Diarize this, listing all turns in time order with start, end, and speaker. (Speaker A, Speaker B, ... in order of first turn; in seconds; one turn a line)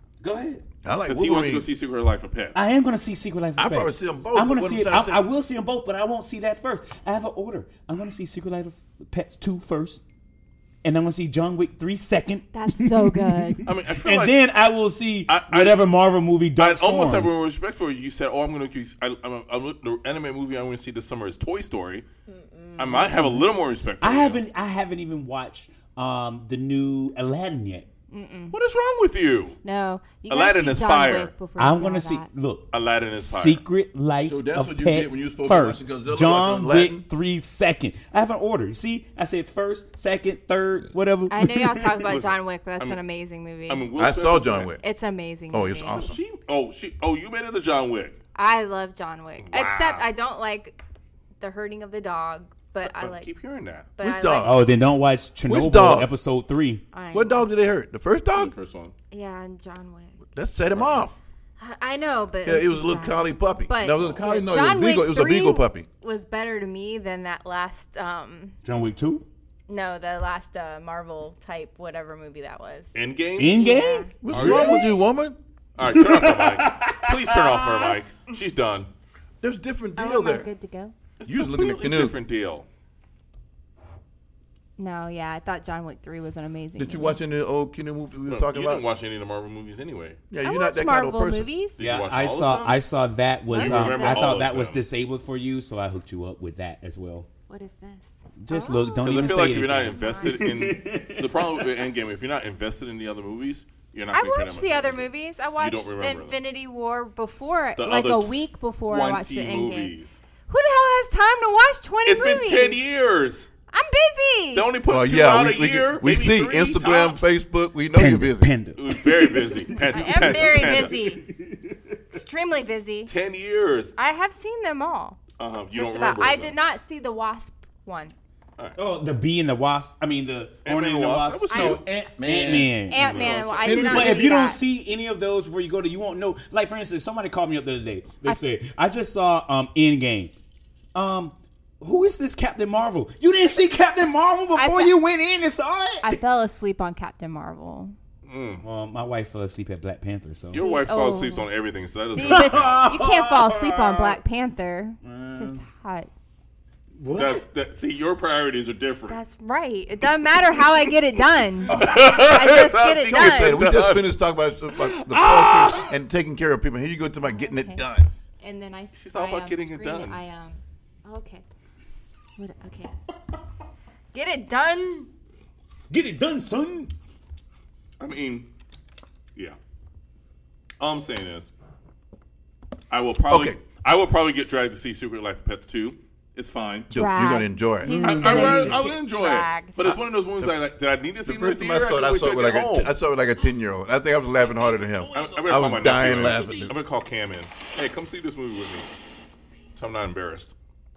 Speaker A: 0.2-0.6
Speaker B: 0.8-1.7
Speaker C: 1.1-2.6
Speaker A: 2.5-10.0
Speaker B: 3.6-5.2
Speaker A: 10.8-17.3
Speaker D: 12.5-13.7
Speaker C: 13.7-14.4
Speaker C: 15.3-15.9
Speaker C: 16.6-22.1
Speaker D: 22.3-23.4
Speaker C: 22.8-24.4
Speaker A: 24.0-27.9
Speaker D: 28.1-28.6
Speaker C: 28.5-29.6
Speaker D: 29.6-32.3
Speaker C: 30.3-31.3
Speaker A: 31.6-42.0
Speaker C: 32.7-33.6
Speaker B: 34.3-37.0
Speaker D: 41.3-43.9
Speaker C: 42.0-43.0
Speaker C: 43.7-44.7
Speaker B: 44.0-44.8
Speaker D: 44.8-46.0
Speaker B: 45.5-46.2
Speaker C: 45.8-48.2
Speaker D: 48.4-50.8
Speaker C: 49.4-50.1
Speaker D: 51.4-53.3
Speaker C: 52.8-53.9
Speaker D: 54.0-54.7
Speaker B: 54.0-54.6
Speaker A: 54.4-56.8
Speaker B: 55.5-56.1
Speaker D: 56.9-57.5
Speaker B: 57.1-58.5
Speaker C: 58.3-58.9
Speaker D: 59.1-60.2
Speaker B: 60.3-61.2
Speaker C: 60.7-61.0
Speaker D: 61.6-68.6
Speaker B: 62.4-65.9
Speaker A: 68.6-69.2
Speaker D: 69.7-73.0
Speaker C: 72.9-73.6
Speaker A: 73.4-74.9
Speaker D: 73.5-74.1
Speaker B: 74.2-75.4
Speaker C: 74.3-74.9
Speaker C: 75.8-78.9
Speaker A: 75.8-77.5
Speaker D: 77.6-78.4
Speaker B: 79.4-80.5
Speaker D: 80.0-80.9
Speaker C: 81.2-82.7
Speaker B: 81.3-82.2
Speaker D: 84.8-87.2
Speaker B: 86.8-88.8
Speaker C: 88.3-90.2
Speaker B: 90.3-91.5
Speaker D: 90.4-91.8
Speaker C: 91.8-92.8
Speaker A: 91.8-97.3
Speaker D: 93.5-94.4
Speaker C: 93.5-94.8
Speaker D: 97.5-100.5
Speaker A: 98.4-101.8
Speaker C: 99.0-106.4
Speaker D: 104.1-109.9
Speaker C: 107.8-108.4
Speaker C: 108.9-110.2
Speaker D: 110.5-112.8
Speaker C: 112.0-113.5
Speaker D: 113.7-114.7
Speaker C: 114.5-117.3
Speaker B: 114.9-118.5
Speaker A: 117.9-122.0
Speaker C: 118.8-121.0
Speaker D: 119.8-121.3
Speaker D: 122.1-123.1
Speaker C: 123.1-124.0
Speaker D: 124.0-125.2
Speaker C: 125.4-126.5
Speaker D: 125.7-128.1
Speaker A: 128.8-133.0
Speaker C: 130.7-131.8
Speaker D: 131.5-131.8
Speaker B: 131.5-134.3
Speaker D: 132.7-134.6
Speaker C: 132.9-134.1
Speaker A: 133.8-140.3
Speaker A: 140.9-146.2
Speaker D: 144.6-145.0
Speaker D: 146.0-147.9
Speaker C: 148.3-148.6
Speaker A: 148.6-150.6
Speaker D: 150.5-151.5
Speaker C: 150.5-152.9
Speaker D: 152.1-156.1
Speaker A: 152.2-154.2
Speaker A: 155.0-155.6
Speaker A: 157.0-157.4
Speaker C: 157.2-159.2
Speaker D: 159.1-163.6
Speaker C: 161.7-164.2
Speaker B: 161.7-162.2
Speaker B: 163.1-168.1
Speaker A: 165.1-165.9
Speaker D: 167.3-167.8
Speaker D: 168.4-171.4
Speaker C: 168.9-170.2
Speaker D: 172.4-173.0
Speaker D: 174.1-175.1
Speaker A: 175.9-176.9
Speaker C: 178.0-178.5
Speaker C: 180.8-181.5
Speaker C: 182.9-186.9
Speaker B: 183.3-183.6
Speaker B: 186.9-188.8
Speaker D: 186.9-190.0
Speaker C: 187.9-192.9
Speaker B: 189.8-190.6
Speaker B: 191.3-196.8
Speaker C: 195.1-198.9
Speaker C: 199.8-200.5